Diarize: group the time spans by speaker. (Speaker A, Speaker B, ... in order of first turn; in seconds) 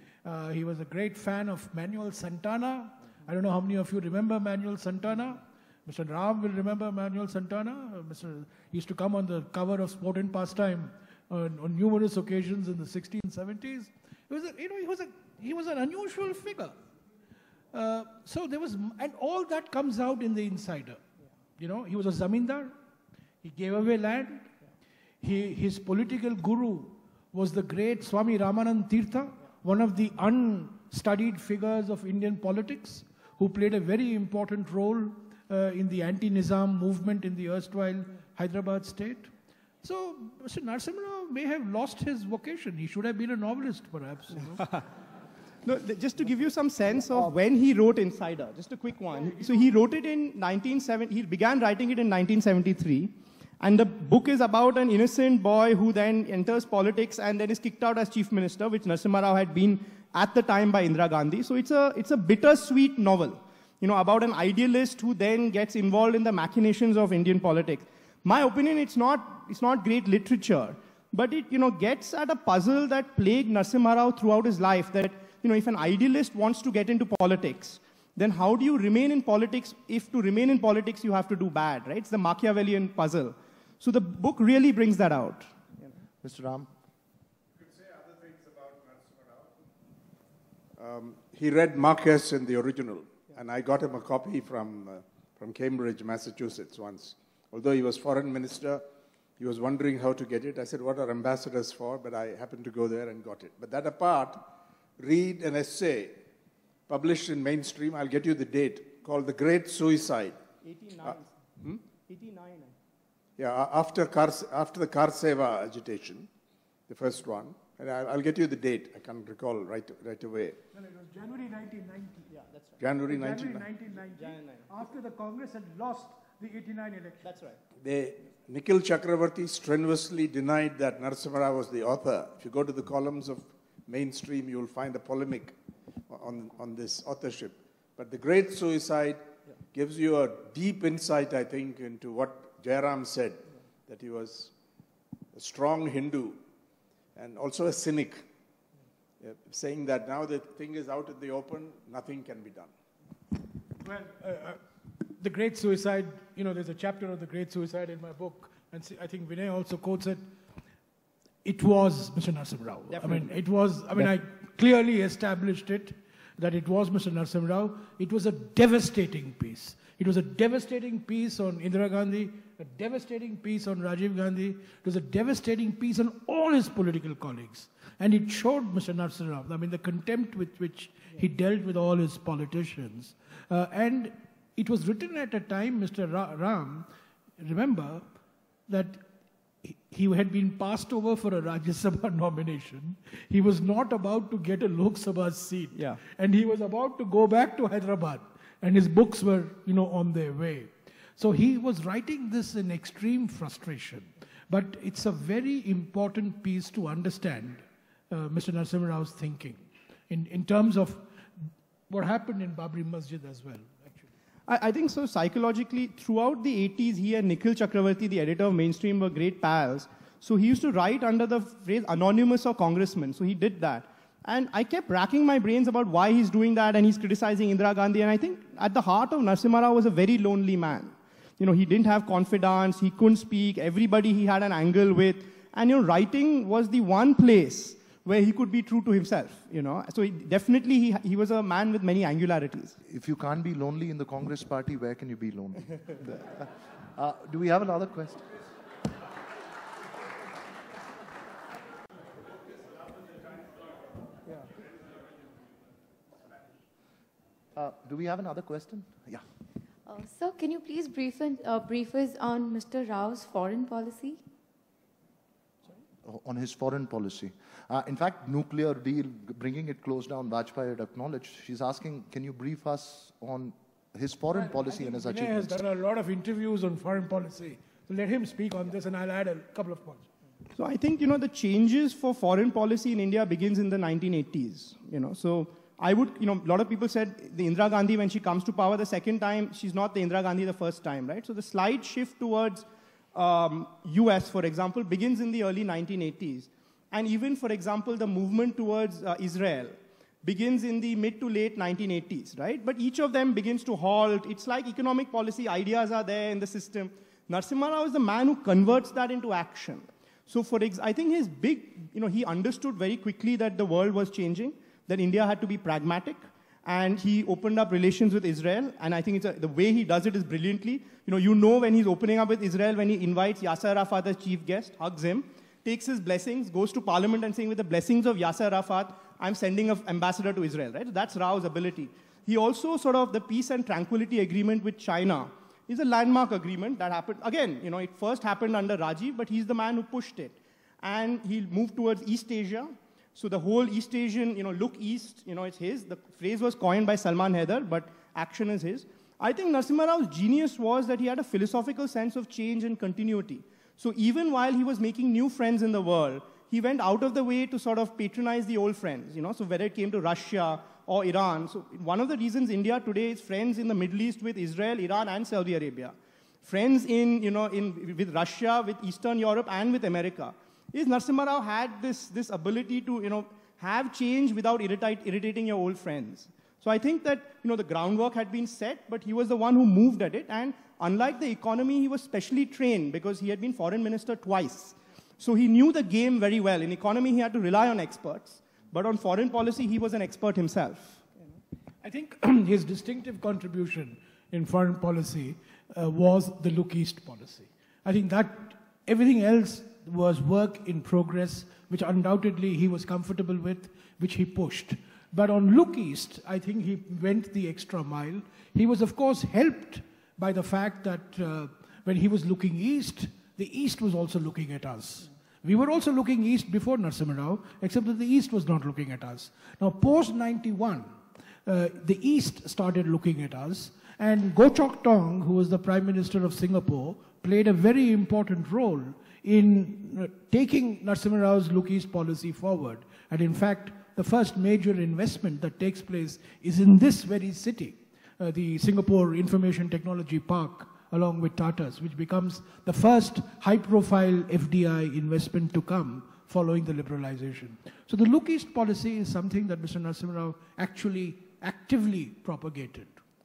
Speaker A: 0.2-16.8, 17.7-21.0, 21.6-22.7, 23.4-24.5, 25.2-39.3, 39.8-44.6, 120.7-122.3, 123.1-127.3, 153.8-160.3, 161.4-186.9, 187.4-188.1, 188.7-189.0, 189.6-211.1, 211.9-214.1, 274.3-280.1, 391.8-420.9, 421.4-452.9
Speaker B: 45.6-85.6, 110.6-112.8, 122.3-122.8, 124.2-124.6, 127.2-127.6, 195.8-196.0, 214.5-242.8, 280.6-391.1
Speaker C: 86.2-86.7, 242.9-248.3, 257.6-259.2, 266.0-275.6
Speaker D: 87.6-89.5, 90.8-98.9, 99.4-106.2, 106.9-110.4, 113.4-116.3, 116.9-120.6, 122.8-123.7, 127.8-135.6, 136.1-144.5, 145.3-146.4, 147.2-148.3, 149.2-152.7
Speaker E: 259.9-264.2